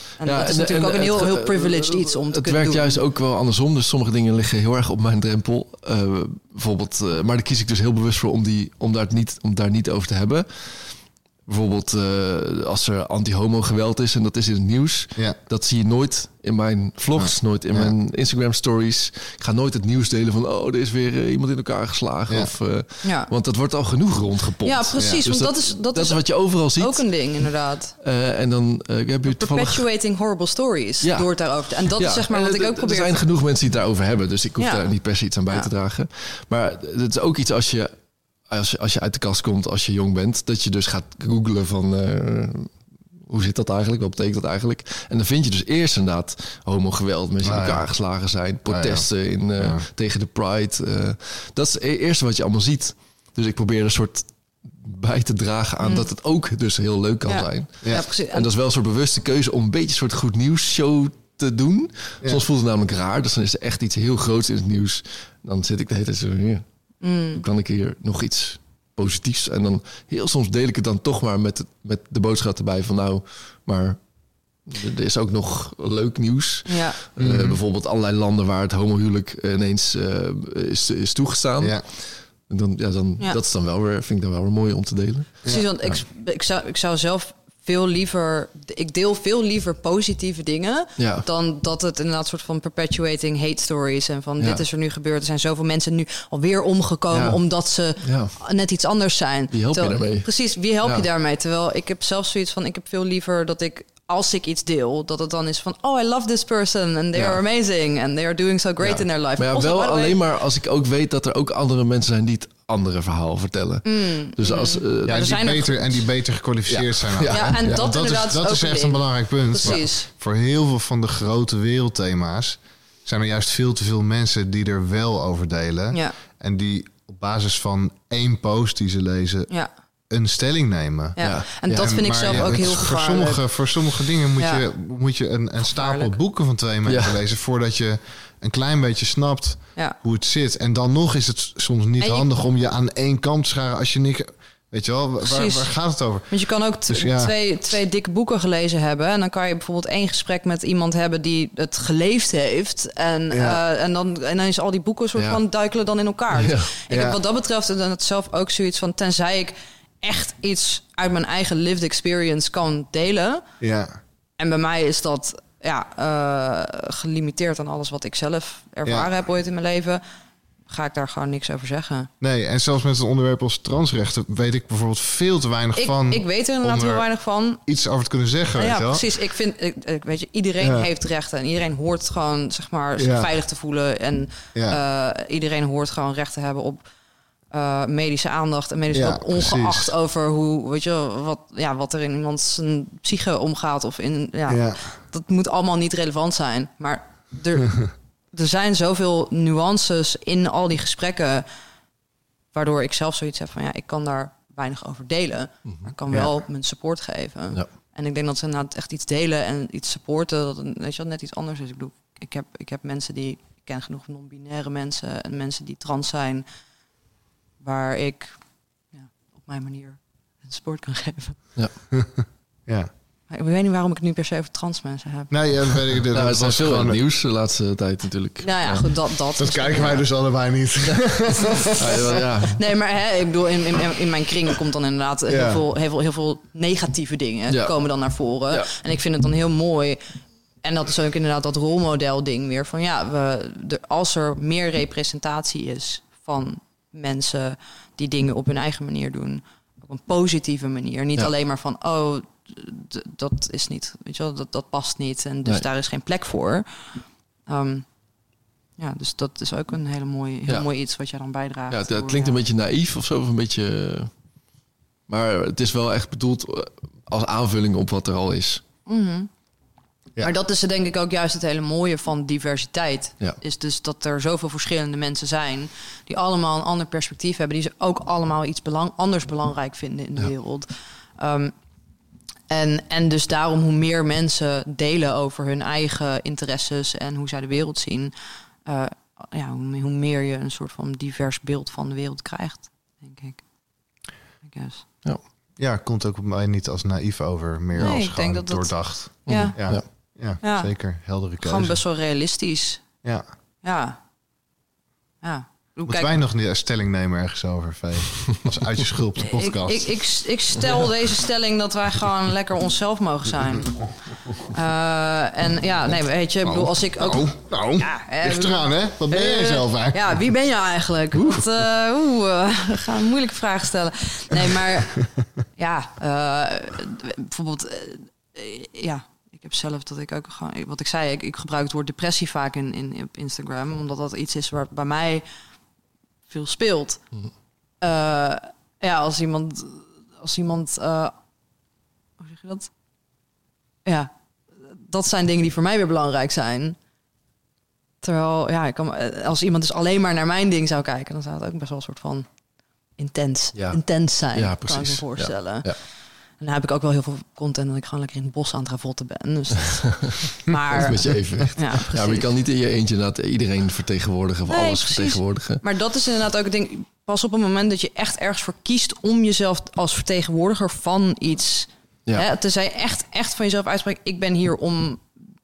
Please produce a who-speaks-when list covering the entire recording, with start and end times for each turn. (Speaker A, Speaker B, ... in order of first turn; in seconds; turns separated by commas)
Speaker A: 0.2-3.0, Speaker B: 0.2-27.2, Speaker C: 17.2-17.9, Speaker A: 23.0-23.3, Speaker A: 24.6-28.0, Speaker C: 25.0-25.2, Speaker B: 28.0-29.8, Speaker A: 29.3-33.2, Speaker B: 31.0-31.3, Speaker B: 31.9-37.9, Speaker A: 34.6-34.9, Speaker B: 38.5-66.7, Speaker C: 47.4-47.9, Speaker C: 48.7-49.9, Speaker A: 55.8-56.1, Speaker A: 57.3-58.5, Speaker A: 67.0-67.4, Speaker B: 67.3-85.4, Speaker A: 76.7-77.0, Speaker C: 77.2-77.6, Speaker C: 81.6-81.9, Speaker C: 85.4-86.0, Speaker A: 85.5-110.2, Speaker B: 91.0-91.3, Speaker B: 97.1-97.4, Speaker B: 98.0-98.3, Speaker B: 99.5-101.1, Speaker B: 107.1-107.4, Speaker B: 108.8-115.4, Speaker A: 113.8-116.0, Speaker C: 115.1-147.3, Speaker B: 116.7-117.7, Speaker A: 117.3-120.1, Speaker A: 131.2-133.5, Speaker B: 131.2-132.8, Speaker A: 134.4-134.6, Speaker A: 135.6-136.2, Speaker B: 136.9-137.2, Speaker A: 142.0-142.3, Speaker A: 145.2-145.8, Speaker A: 146.3-163.4, Speaker C: 153.3-153.6, Speaker B: 156.3-156.7, Speaker C: 156.9-157.2, Speaker C: 163.6-164.0, Speaker A: 164.4-170.0, Speaker A: 170.7-172.1, Speaker C: 172.2-177.1, Speaker A: 175.8-177.6, Speaker C: 177.7-179.1, Speaker A: 178.6-186.8, Speaker C: 180.6-180.9, Speaker C: 183.0-183.3, Speaker A: 187.5-201.5, Speaker C: 188.9-189.9, Speaker C: 194.5-195.0, Speaker A: 202.5-216.5, Speaker B: 205.7-206.3, Speaker A: 217.6-221.5, Speaker C: 221.9-222.9, Speaker A: 223.3-225.3, Speaker C: 225.3-227.0, Speaker B: 226.1-228.9, Speaker A: 228.4-230.1, Speaker C: 229.4-232.0, Speaker B: 231.7-232.6, Speaker A: 232.2-258.0, Speaker C: 235.3-235.6, Speaker B: 237.5-237.8, Speaker A: 258.8-262.4, Speaker B: 261.7-264.1, Speaker B: 265.1-268.6, Speaker A: 268.9-269.3, Speaker A: 270.2-281.5, Speaker A: 282.5-288.1, Speaker A: 288.6-293.4, Speaker A: 294.4-294.9, Speaker C: 295.6-301.8, Speaker A: 297.8-300.7, Speaker B: 299.3-299.8, Speaker A: 301.4-302.9, Speaker A: 303.6-304.0, Speaker A: 305.2-306.2, Speaker C: 305.9-310.0, Speaker A: 309.2-335.2, Speaker B: 310.6-310.9, Speaker C: 316.4-320.2, Speaker B: 321.1-321.5, Speaker A: 336.3-337.1, Speaker A: 337.8-341.1, Speaker A: 342.2-342.7, Speaker A: 343.9-346.8, Speaker A: 348.0-352.3, Speaker A: 353.0-362.3, Speaker B: 353.5-355.8, Speaker B: 360.7-365.6, Speaker A: 364.5-375.1